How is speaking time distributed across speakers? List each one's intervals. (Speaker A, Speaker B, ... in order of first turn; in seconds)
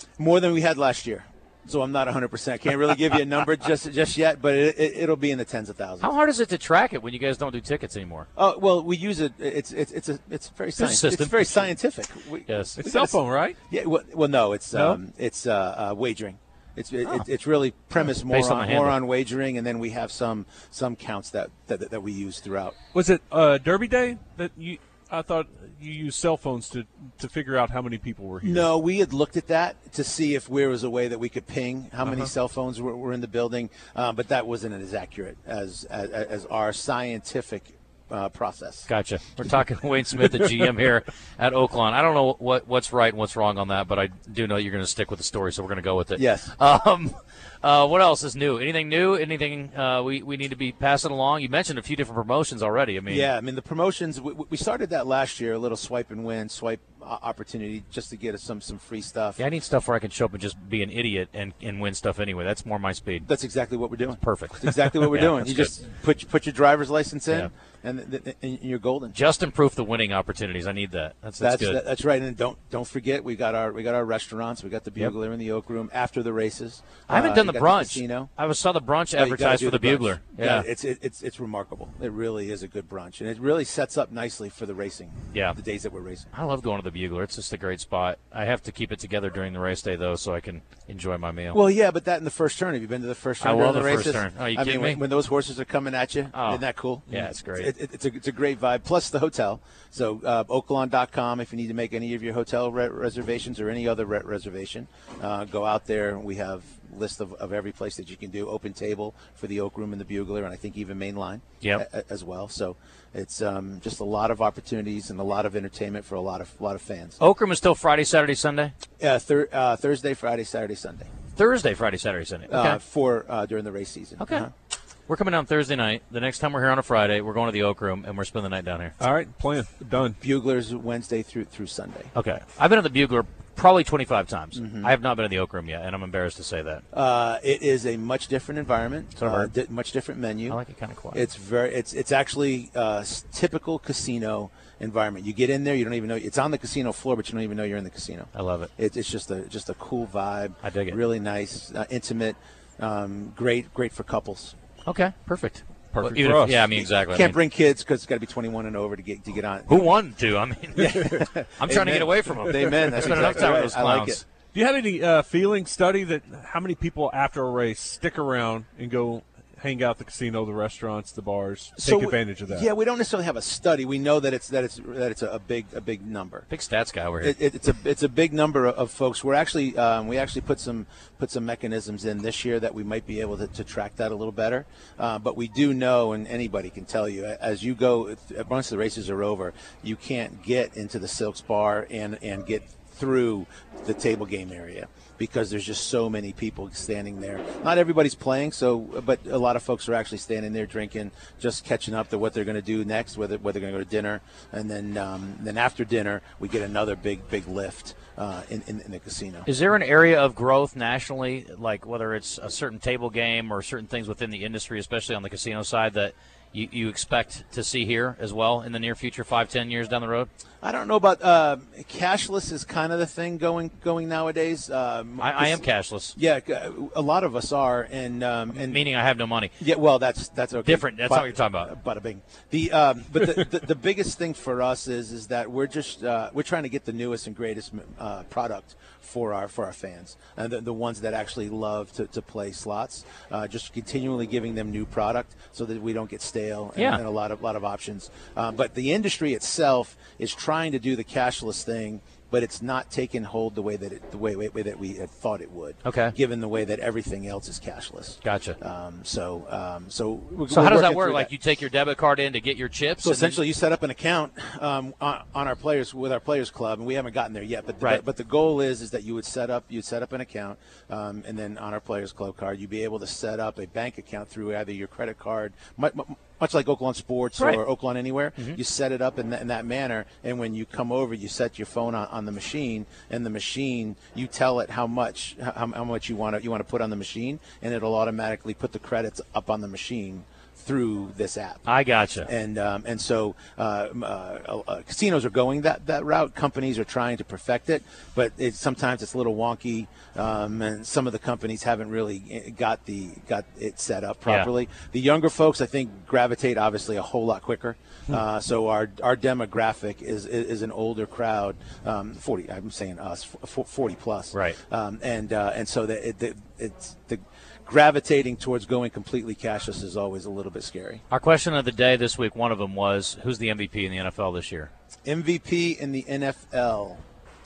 Speaker A: 0.2-6.1, 8.3-13.2, 13.7-22.8, 28.4-38.9, 46.1-46.5, 53.1-59.4, 63.2-69.2, 71.4-78.3, 79.2-86.3, 91.5-117.2, 119.0-121.1, 122.5-124.5, 130.2-132.1, 134.5-134.9, 136.9-140.6, 141.1-154.5, 156.7-159.9, 160.8-164.2, 171.8-176.5, 177.2-209.5, 220.6-225.6, 226.1-228.8, 229.6-261.3, 263.0-291.7, 292.2-321.0, 325.1-327.0
Speaker B: 6.0-8.3, 10.8-11.7, 12.5-12.8, 18.1-19.0, 38.9-53.3, 59.4-63.3, 64.2-65.8, 69.1-71.8, 77.1-80.7, 85.3-85.6, 86.3-91.6, 93.4-95.0, 96.3-97.7, 111.6-111.8, 117.2-118.7, 121.3-122.8, 124.2-124.5, 125.1-128.9, 132.1-136.8, 139.2-139.5, 140.5-141.3, 148.3-148.7, 150.6-151.0, 154.8-157.4, 159.7-164.2, 176.5-177.4, 209.4-220.3, 225.2-226.1, 228.5-229.5, 230.6-231.7, 246.7-247.0, 255.8-256.1, 258.2-258.6, 260.5-263.4, 277.4-277.6, 291.6-292.3, 304.2-304.5, 314.3-314.6, 321.1-324.7
Speaker C: 12.8-13.6, 14.7-15.0, 22.9-28.7, 129.0-130.2, 155.9-156.7, 164.5-172.7